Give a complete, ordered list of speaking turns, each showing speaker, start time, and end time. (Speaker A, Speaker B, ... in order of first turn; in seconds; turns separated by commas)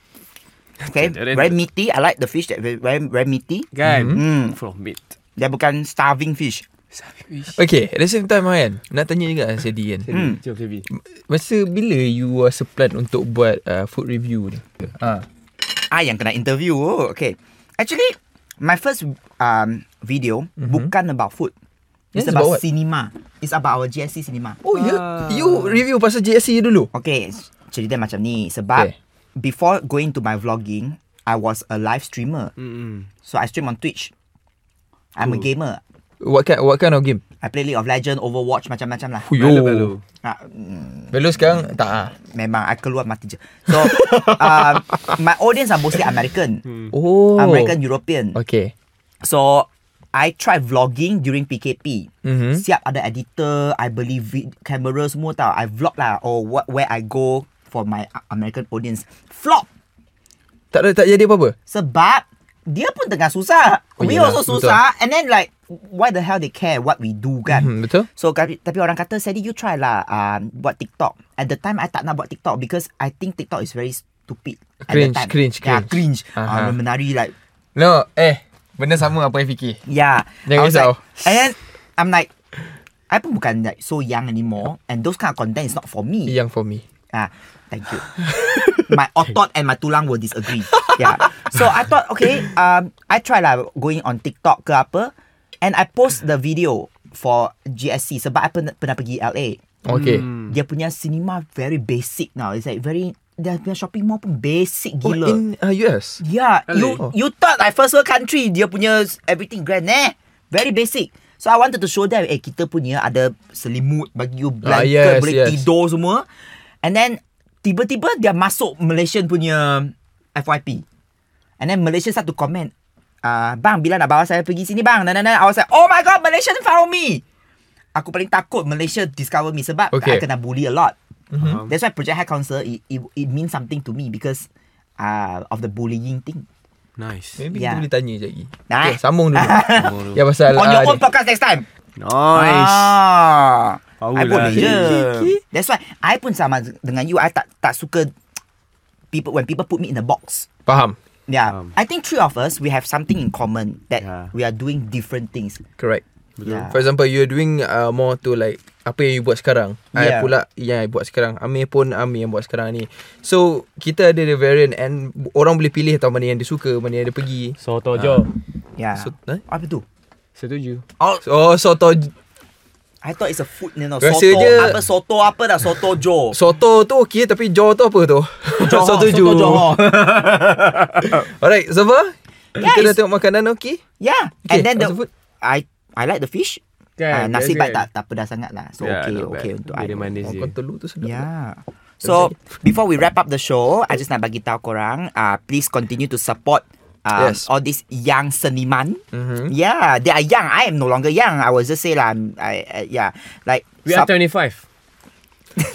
Speaker A: 0.8-1.6, Speaker B: 0.9-4.6, Speaker A: 3.7-5.2, Speaker C: 3.8-4.2, Speaker B: 5.4-6.7, Speaker A: 6.9-7.6, Speaker C: 7.5-10.1, Speaker A: 10.1-10.9, Speaker B: 10.1-10.4, Speaker C: 10.9-15.3, Speaker B: 15.7-21.5, Speaker C: 20.6-20.9, Speaker C: 22.1-22.6, Speaker B: 22.1-24.6, Speaker C: 24.6-26.9, Speaker A: 24.7-25.8, Speaker B: 26.9-32.5, Speaker A: 32.6-33.1, Speaker B: 33.2-34.1, Speaker B: 35.2-35.8, Speaker A: 35.2-35.5, Speaker C: 36.2-37.2, Speaker B: 37.4-39.3, Speaker C: 39.2-39.9, Speaker A: 39.4-40.0, Speaker B: 40.2-41.2, Speaker C: 41.1-42.1, Speaker B: 42.3-46.6, Speaker C: 43.7-45.1, Speaker C: 46.9-47.8, Speaker B: 47.4-48.4, Speaker C: 48.4-48.7, Speaker B: 49.2-59.7, Speaker C: 52.2-52.6, Speaker C: 60.7-61.5, Speaker B: 61.7-77.3, Speaker C: 64.0-64.8, Speaker C: 67.5-68.1, Speaker C: 74.8-76.8, Speaker C: 77.8-79.8, Speaker B: 79.9-82.3, Speaker C: 80.5-81.0, Speaker B: 83.1-86.4, Speaker C: 86.3-86.8, Speaker B: 87.1-88.1, Speaker C: 88.2-88.8, Speaker B: 88.9-99.6, Speaker C: 99.8-100.3, Speaker A: 99.9-100.5, Speaker B: 100.3-105.4, Speaker C: 105.0-106.2, Speaker B: 106.2-116.2, Speaker A: 106.7-107.0, Speaker C: 114.6-115.6, Speaker B: 116.8-120.8, Speaker B: 121.6-122.7, Speaker B: 123.2-127.2, Speaker B: 128.0-130.9, Speaker C: 129.9-130.2, Speaker C: 131.3-131.6, Speaker A: 131.4-131.7, Speaker B: 131.7-134.5, Speaker B: 135.0-136.4, Speaker A: 137.0-137.4, Speaker C: 137.4-141.0, Speaker B: 137.5-137.8, Speaker B: 138.7-141.7, Speaker A: 139.8-140.2, Speaker A: 142.0-143.0, Speaker B: 142.3-148.1, Speaker A: 144.0-145.0, Speaker C: 144.4-145.4, Speaker B: 149.1-150.5, Speaker C: 150.7-151.0, Speaker B: 151.3-155.6, Speaker A: 154.0-154.3, Speaker A: 156.4-156.7, Speaker B: 156.4-156.8, Speaker C: 156.7-168.2, Speaker B: 159.9-160.3, Speaker A: 167.6-168.3, Speaker B: 168.8-169.8, Speaker C: 169.0-169.4, Speaker A: 170.4-170.8, Speaker C: 171.2-172.1, Speaker B: 173.0-176.4, Speaker C: 174.0-174.8, Speaker C: 176.3-183.8, Speaker B: 178.6-180.3, Speaker B: 182.6-183.0, Speaker B: 184.0-190.1, Speaker C: 184.5-185.1, Speaker A: 187.0-187.9, Speaker A: 188.8-190.6, Speaker C: 190.2-191.3, Speaker B: 191.0-204.1, Speaker C: 192.0-192.3, Speaker C: 197.2-197.5, Speaker C: 199.1-199.5, Speaker A: 203.8-204.6